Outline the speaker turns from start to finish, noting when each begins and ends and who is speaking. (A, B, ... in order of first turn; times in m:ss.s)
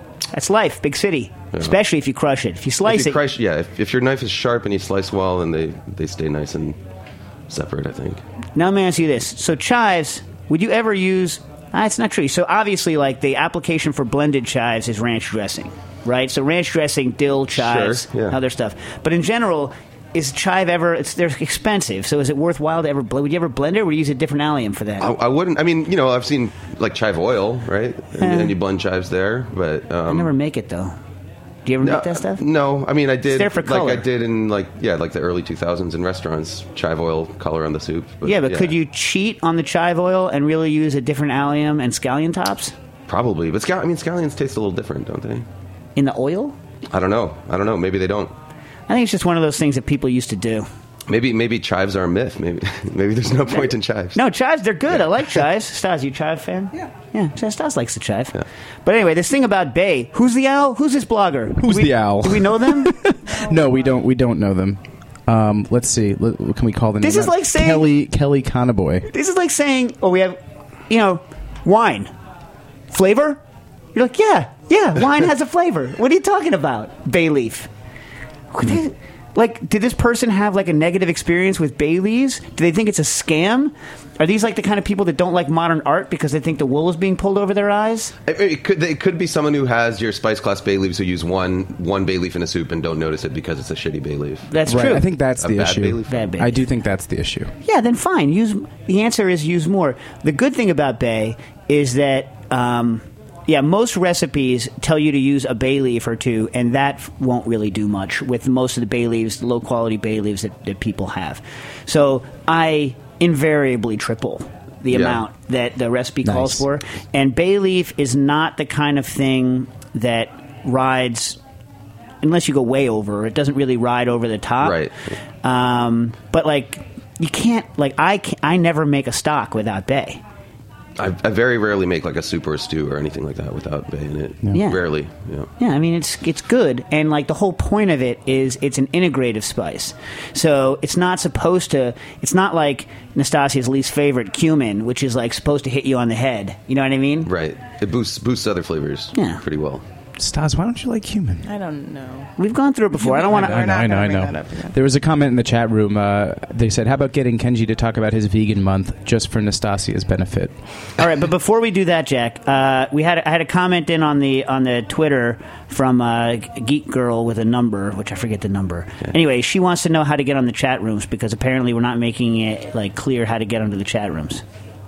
0:00.3-0:03.2 A
0:02.8-0:06.8 B
0:07.5-0:08.2 B
0:08.6-0:25.1 A
0:17.5-0:18.4 B
0:25.0-0:30.3 B
0:28.2-0:28.6 A
0:30.1-0:31.0 A
0:31.7-0:32.4 A
0:31.8-0:38.7 B
0:33.3-0:34.0 A
0:38.2-0:42.7 A
0:43.1-0:45.5 B
0:46.0-0:46.6 A
0:46.9-0:48.3 B
0:48.9-0:50.7 A
0:51.1-0:54.2 B
0:54.2-1:03.0 A
1:01.6-1:09.1 C
1:07.0-1:07.9 A
1:09.1-1:10.4 A
1:10.9-1:12.1 A
1:12.9-1:13.4 A
1:14.0-1:17.7 A
1:18.5-1:28.1 A
1:28.3-1:36.3 B
1:34.5-1:35.1 A
1:34.7-1:37.5 C
1:36.1-1:36.6 A
1:37.6-2:01.4 A
1:54.9-1:55.2 B
1:56.3-1:56.6 C
2:02.2-2:04.9 A
2:04.6-2:05.2 B
2:05.4-2:10.2 A
2:11.0-2:15.5 B
2:14.5-2:14.8 A
2:15.6-2:27.3 A
2:27.3-2:29.8 B
2:29.2-2:29.4 A
2:30.2-2:31.4 C
2:31.4-2:32.3 D
2:32.4-2:33.7 A
2:33.0-2:34.8 D
2:33.3-2:40.5 C
2:41.0-2:54.4 A